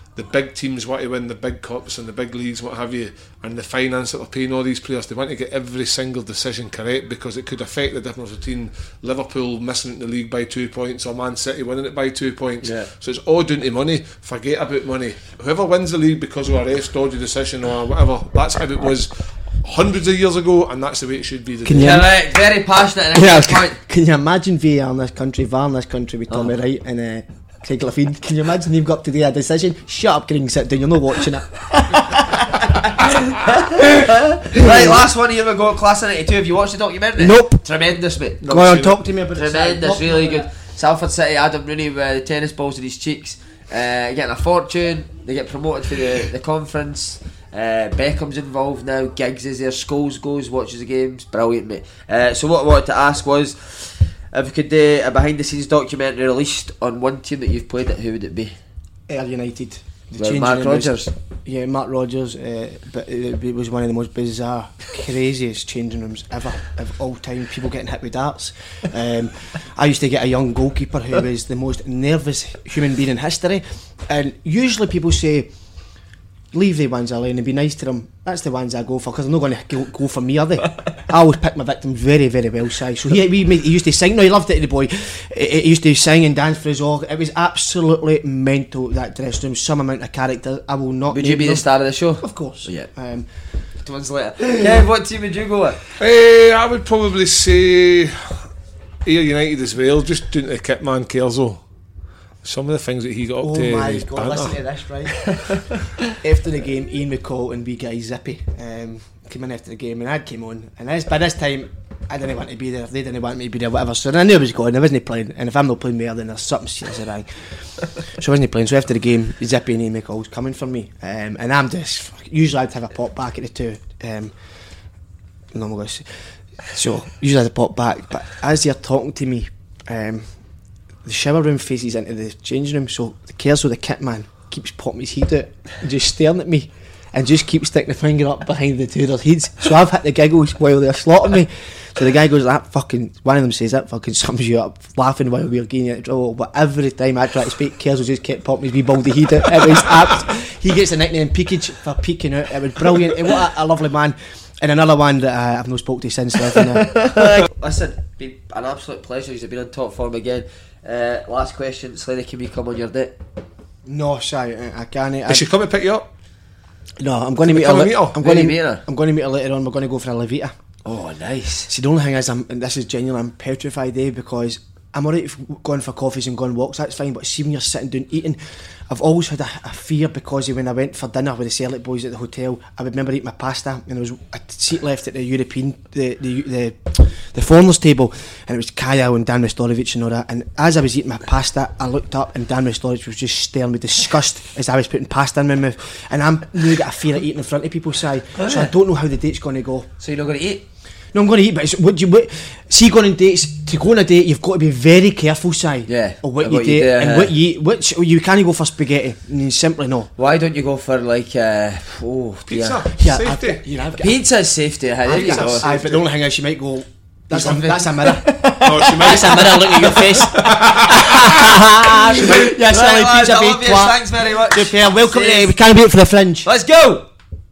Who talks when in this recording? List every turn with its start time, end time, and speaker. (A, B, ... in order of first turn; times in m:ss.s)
0:00.2-0:22.1 A
0:12.6-0:12.9 B
0:21.6-0:22.1 C
0:21.8-0:23.8 B
0:23.1-0:32.6 C
0:32.3-0:38.4 B
0:34.5-0:35.0 C
0:37.2-0:37.6 C
0:38.4-0:39.0 A
0:38.4-0:40.5 C
0:39.4-0:58.6 B
0:59.1-1:15.5 C
1:00.2-1:01.1 B
1:16.5-1:31.7 C
1:31.1-1:32.9 B
1:32.2-1:33.3 C
1:33.8-1:35.8 B
1:36.0-1:38.5 A
1:39.0-1:41.6 A
1:42.4-1:44.6 A
1:43.4-1:45.3 C
1:46.1-1:57.5 C
1:58.0-2:04.3 C
2:05.5-2:06.0 C
2:06.7-2:10.3 C
2:11.0-2:37.5 C
2:36.6-2:43.2 B
2:43.9-2:45.5 C
2:45.3-2:46.1 A
2:47.0-2:50.6 C
2:47.4-2:48.2 A
2:48.2-2:48.8 B
2:50.8-2:51.7 B
2:51.7-3:19.9 C
3:18.4-3:18.7 B
3:20.0-3:20.6 B
3:21.1-3:30.1 C
3:25.9-3:27.3 B
3:30.2-3:32.8 B
3:32.5-3:33.6 A
3:33.0-3:34.2 C
3:34.0-3:35.7 B
3:35.1-3:36.0 A
3:35.1-3:46.5 C
3:37.3-3:45.6 B
3:38.6-3:41.2 A
3:46.4-3:47.1 B